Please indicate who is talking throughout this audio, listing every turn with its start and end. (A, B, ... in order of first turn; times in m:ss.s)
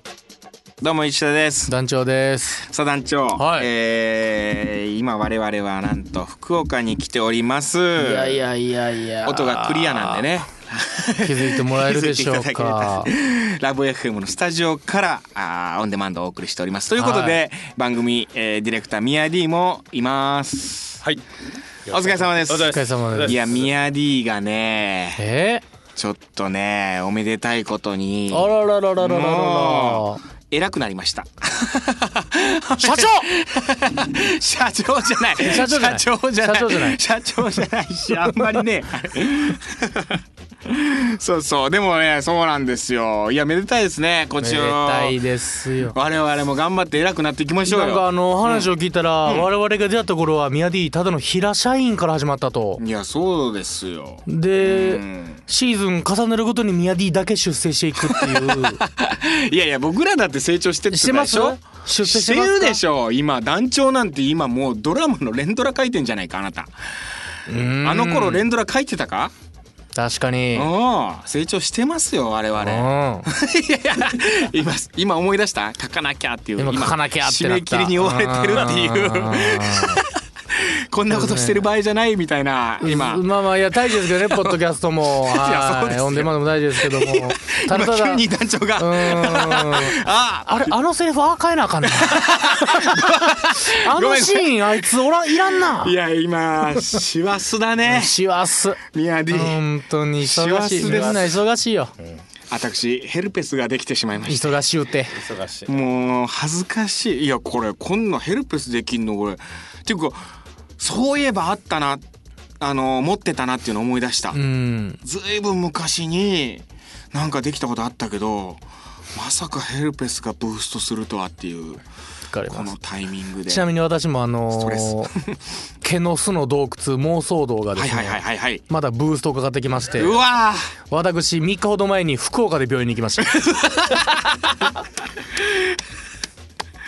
0:00.8-0:01.7 A
0:01.7-0:02.7 B
0:02.6-0:08.4 A
0:03.4-0:03.7 B
0:08.0-0:10.3 B
0:09.2-0:21.0 A
0:11.2-0:13.1 B
0:17.0-0:17.4 B
0:21.9-0:23.7 C
0:21.9-0:25.2 A
0:22.7-0:23.4 B
0:25.2-0:25.6 B
0:26.0-0:45.2 A
0:28.3-0:30.2 B
0:32.8-0:33.3 B
0:35.4-0:37.0 B
0:44.4-0:46.0 B
0:45.8-0:48.7 A
0:47.7-0:52.8 B
0:52.8-0:55.4 A
0:54.3-0:58.8 B
0:58.0-1:06.7 A
1:00.9-1:02.8 B
1:07.5-1:08.4 B
1:07.6-1:09.3 A
1:10.0-1:10.7 B
1:10.5-1:23.2 A
1:12.6-1:13.3 B
1:16.6-1:20.0 B
1:21.1-1:21.6 B
1:22.8-1:28.2 B
1:24.1-1:24.6 A
1:25.2-1:30.8 A
1:28.8-1:36.0 B
1:31.8-1:34.8 A
1:35.6-1:38.2 A
1:37.9-1:41.9 B
1:38.9-1:39.6 A
1:40.2-1:41.3 A
1:40.8-1:41.3 C
1:42.5-1:44.6 A
1:44.3-1:45.2 B
1:45.1-1:45.8 C
1:45.7-1:50.2 A
1:50.8-1:52.0 A
1:52.6-1:54.4 A
1:54.3-1:55.0 B
1:55.0-1:58.6 A
1:59.1-2:01.8 A
2:02.3-2:02.8 B
2:02.5-2:03.7 A
2:03.5-2:05.1 B
2:04.5-2:05.4 A
2:05.8-2:10.2 B
2:07.8-2:08.6 A
2:09.9-2:10.7 A
2:10.9-2:13.4 B
2:13.4-2:14.2 A
2:15.4-2:15.8 A